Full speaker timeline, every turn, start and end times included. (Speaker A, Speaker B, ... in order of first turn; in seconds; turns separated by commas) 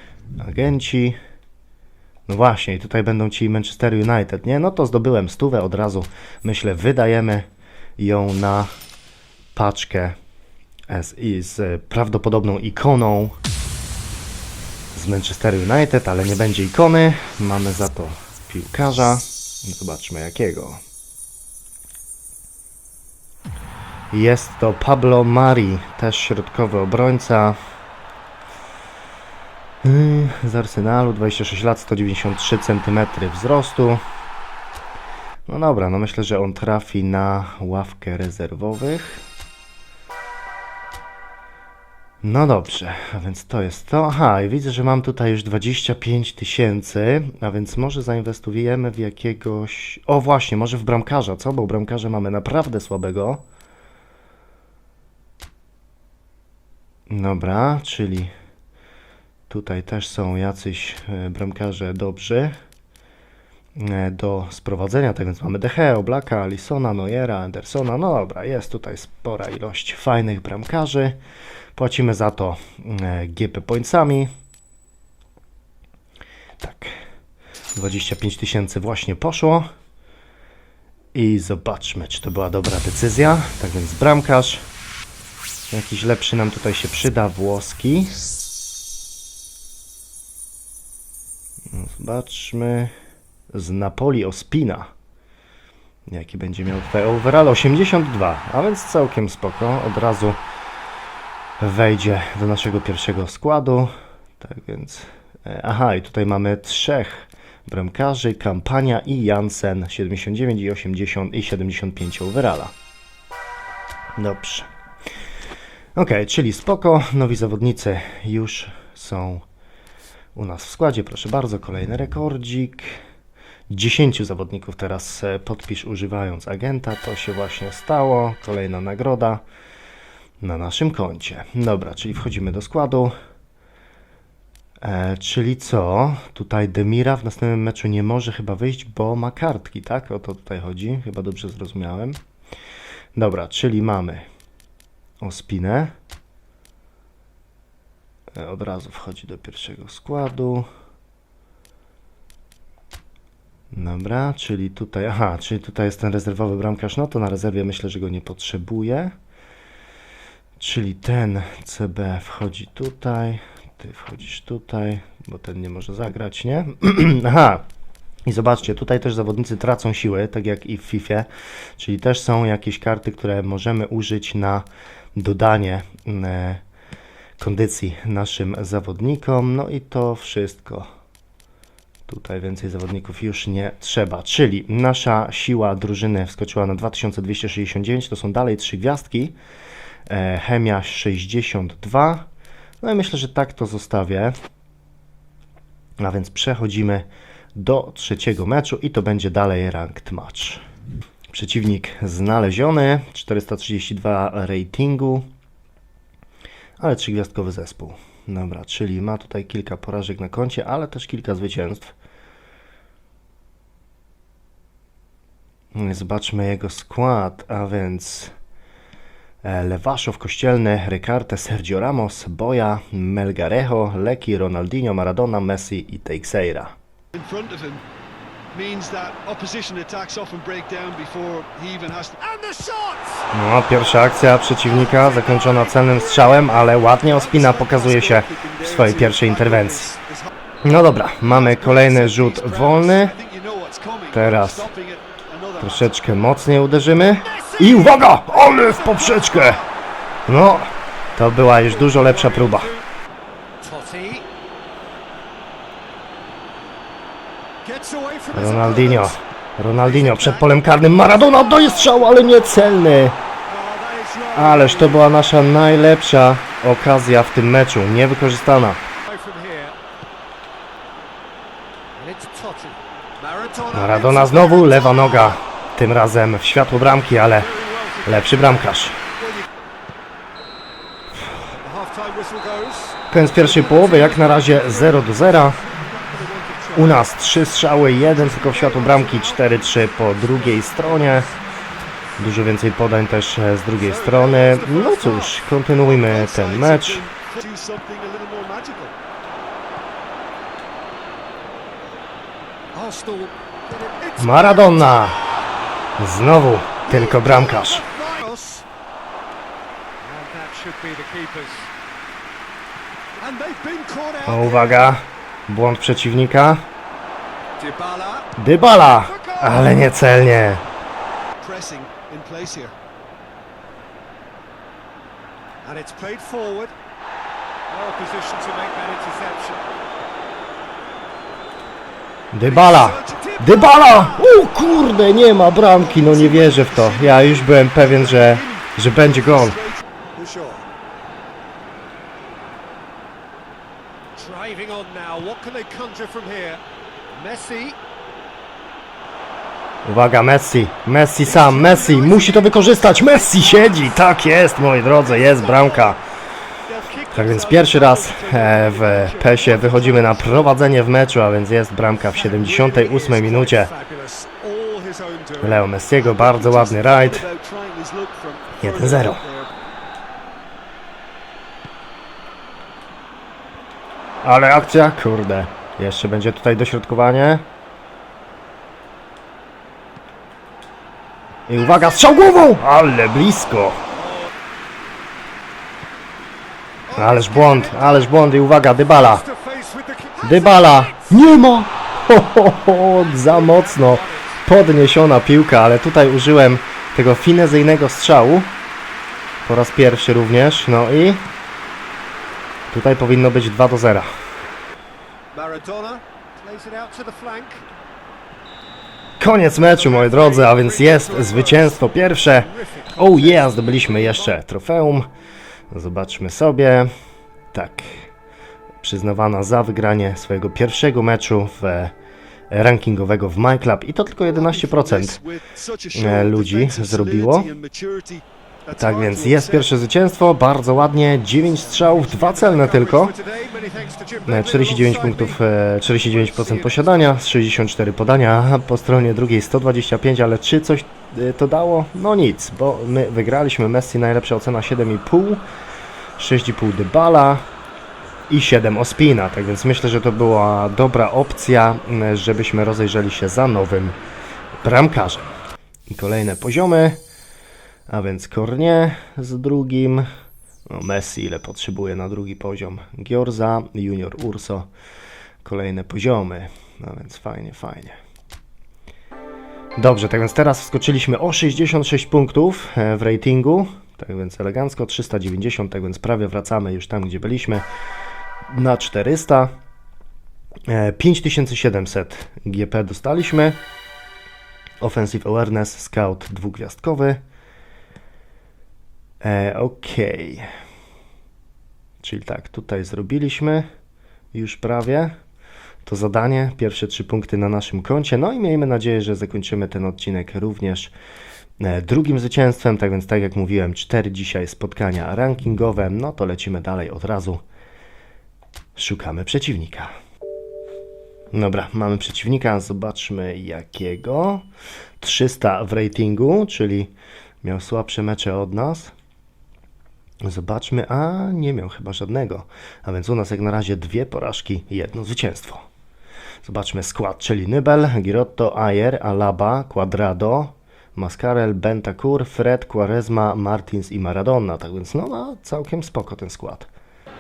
Speaker A: 0.4-1.2, Speaker A: 2.3-8.7, Speaker A: 9.6-10.2, Speaker A: 10.9-13.4, Speaker A: 14.9-20.8, Speaker A: 24.1-27.6, Speaker A: 29.8-34.0, Speaker A: 35.5-39.2, Speaker A: 42.2-53.4, Speaker A: 57.1-58.3, Speaker A: 59.5-62.5, Speaker A: 63.8-71.2, Speaker A: 71.8-74.3, Speaker A: 76.6-77.0, Speaker A: 77.8-79.7, Speaker A: 81.1-84.7, Speaker A: 85.7-88.2, Speaker A: 91.7-92.9, Speaker A: 93.5-94.9, Speaker A: 96.1-100.4, Speaker A: 101.6-112.7, Speaker A: 114.2-114.7, Speaker A: 116.0-119.5, Speaker A: 120.3-123.0, Speaker A: 123.7-129.4, Speaker A: 130.4-133.1, Speaker A: 134.8-142.2, Speaker A: 143.2-144.3, Speaker A: 145.2-145.9, Speaker A: 148.3-150.7, Speaker A: 153.7-159.2, Speaker A: 160.6-167.6, Speaker A: 168.3-171.3, Speaker A: 171.8-176.6, Speaker A: 177.4-180.9, Speaker A: 182.1-189.3, Speaker A: 190.1-192.3, Speaker A: 192.8-194.4, Speaker A: 196.0-200.6, Speaker A: 201.3-205.3, Speaker A: 206.8-211.9, Speaker A: 215.7-218.3, Speaker A: 219.4-226.8, Speaker B: 227.1-227.8, Speaker B: 228.5-232.2, Speaker C: 232.2-233.3, Speaker A: 233.3-239.9, Speaker C: 234.6-235.9, Speaker B: 235.2-240.3, Speaker A: 240.6-243.2, Speaker B: 241.2-246.0, Speaker A: 244.1-244.7, Speaker A: 245.6-249.6, Speaker C: 247.0-249.7, Speaker A: 250.3-252.7, Speaker C: 251.6-252.9, Speaker C: 253.6-254.3, Speaker C: 257.6-259.2, Speaker A: 258.3-263.2, Speaker C: 259.7-262.3, Speaker C: 263.5-265.0, Speaker A: 264.3-268.8, Speaker C: 269.0-269.8, Speaker C: 271.9-275.4, Speaker A: 273.7-277.5, Speaker C: 277.2-279.5, Speaker A: 278.1-279.0, Speaker C: 281.5-287.1, Speaker A: 283.1-285.6, Speaker A: 286.8-291.3, Speaker C: 288.1-291.4, Speaker A: 292.2-297.0, Speaker C: 293.8-295.4, Speaker B: 295.8-298.6, Speaker C: 298.5-298.9, Speaker C: 302.7-305.5, Speaker A: 304.2-305.2, Speaker A: 306.0-307.8, Speaker C: 306.9-308.7, Speaker C: 310.0-311.7, Speaker C: 313.2-315.0, Speaker A: 314.3-316.6, Speaker C: 317.6-318.3, Speaker A: 318.4-320.6, Speaker C: 318.9-319.9, Speaker B: 321.4-322.7, Speaker C: 325.6-326.8, Speaker C: 327.7-329.7, Speaker A: 332.3-339.6, Speaker B: 332.5-334.1, Speaker C: 333.2-334.3, Speaker B: 335.5-339.8, Speaker C: 340.1-340.7, Speaker C: 344.1-347.8, Speaker A: 349.9-356.0, Speaker C: 351.3-354.0, Speaker B: 351.5-352.3, Speaker B: 355.0-355.9, Speaker B: 356.7-360.5, Speaker A: 357.1-363.7, Speaker C: 362.0-365.7, Speaker A: 365.4-367.3, Speaker B: 366.0-369.5, Speaker A: 368.6-369.2, Speaker A: 374.2-377.4, Speaker A: 381.5-383.8, Speaker C: 381.6-382.5, Speaker C: 383.9-384.3, Speaker C: 386.9-388.2, Speaker A: 386.9-389.2, Speaker C: 388.8-391.4, Speaker A: 390.2-398.5, Speaker C: 392.7-394.5, Speaker A: 399.4-401.2, Speaker A: 402.7-404.1, Speaker C: 405.3-407.7, Speaker A: 409.2-415.1, Speaker C: 409.7-414.4, Speaker A: 415.7-416.9, Speaker A: 417.5-418.1, Speaker A: 418.8-421.9, Speaker A: 422.5-425.2, Speaker B: 424.2-429.7, Speaker A: 425.9-427.5, Speaker A: 428.8-433.1, Speaker C: 431.6-435.4, Speaker A: 434.3-445.4, Speaker C: 436.0-437.2, Speaker A: 446.2-447.4, Speaker A: 448.3-454.0, Speaker A: 454.6-455.3, Speaker A: 455.9-457.0, Speaker A: 457.9-460.1, Speaker A: 460.7-464.7, Speaker A: 465.4-468.0, Speaker A: 469.8-477.7, Speaker A: 478.5-479.5, Speaker A: 480.7-483.6, Speaker A: 484.8-487.2, Speaker A: 489.2-490.5, Speaker A: 492.0-493.7, Speaker A: 494.3-495.1, Speaker A: 495.9-500.9, Speaker A: 501.6-507.4, Speaker A: 508.8-509.9, Speaker A: 511.3-514.5, Speaker A: 515.0-518.9, Speaker A: 520.2-525.6, Speaker A: 526.4-536.7